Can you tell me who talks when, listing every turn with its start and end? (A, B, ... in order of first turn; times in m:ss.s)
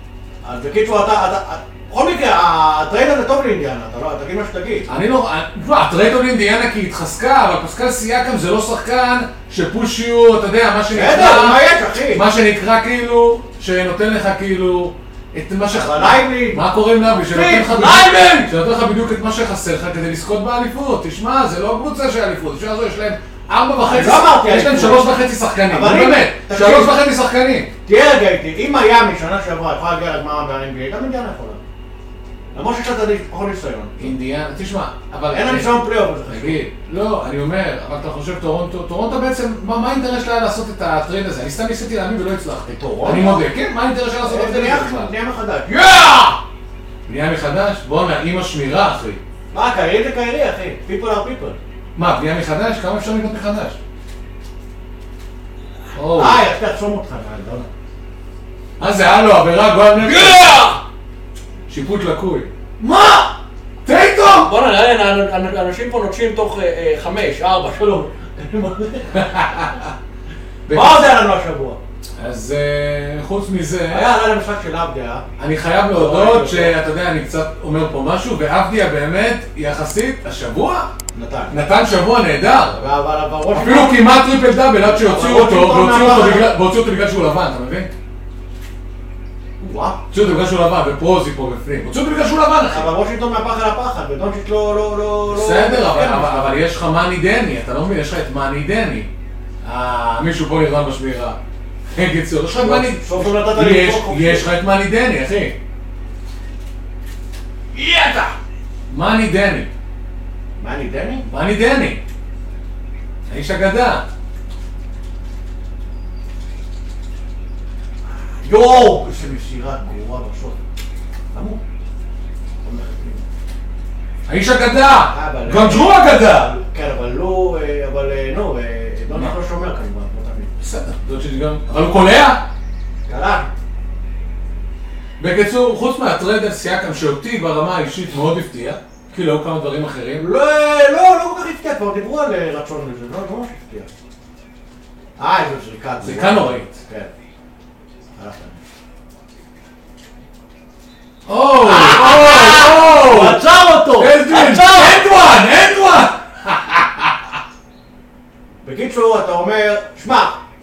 0:00.4-0:04.9 A
0:04.9-0:27.7 B
0:10.9-0:12.2 A
0:15.7-0:18.5 A
0:23.8-0:25.1 A
0:25.7-0:27.0 A
0:27.8-0:31.6 A
0:32.5-0:34.2 A
0:34.0-0:45.1 B
0:35.3-0:36.6 A
0:42.8-0:43.5 A
0:44.2-0:46.4 A
0:47.1-0:49.2 B
0:49.5-0:51.6 A
0:52.0-0:53.8 B
0:55.9-0:56.4 B
0:56.0-0:57.7 A
0:58.8-1:00.6 B
1:00.0-1:00.8 A
1:01.7-1:02.5 B
1:02.8-1:03.2 A
1:03.8-1:04.5 B
1:04.3-1:09.2 A
1:09.1-1:09.9 B
1:10.7-1:11.2 B
1:10.7-1:11.8 A
1:12.2-1:14.1 B
1:13.9-1:15.2 A
1:15.4-1:20.9 B
1:15.9-1:16.8 A
1:21.1-1:21.6 A
1:21.5-1:22.8 B
1:22.8-1:24.0 A
1:23.5-1:27.9 B
1:24.8-1:26.5 A
1:29.6-1:30.0 A
1:30.1-1:32.9 B
1:32.7-1:36.6 A
1:35.3-1:39.1 B
1:39.6-1:41.4 B
1:41.9-1:45.6 B
1:42.6-1:44.5 A
1:47.7-1:48.3 A
1:48.9-1:49.7 B
1:50.6-1:51.3 A
1:51.2-1:52.0 B
1:53.3-1:54.0 B
1:58.1-2:00.6 A
2:01.3-2:01.6 A
2:02.6-2:03.2 A
2:04.3-2:06.5 B
2:05.1-2:10.6 A
2:10.6-2:12.4 B
2:13.1-2:13.5 A
2:15.2-2:20.3 B
2:20.2-2:23.9 A
2:25.2-2:27.1 A
2:26.0-2:26.7 B
2:28.2-2:28.6 A
2:31.2-2:37.2 B
2:31.6-2:35.0 A
2:38.6-2:40.4 A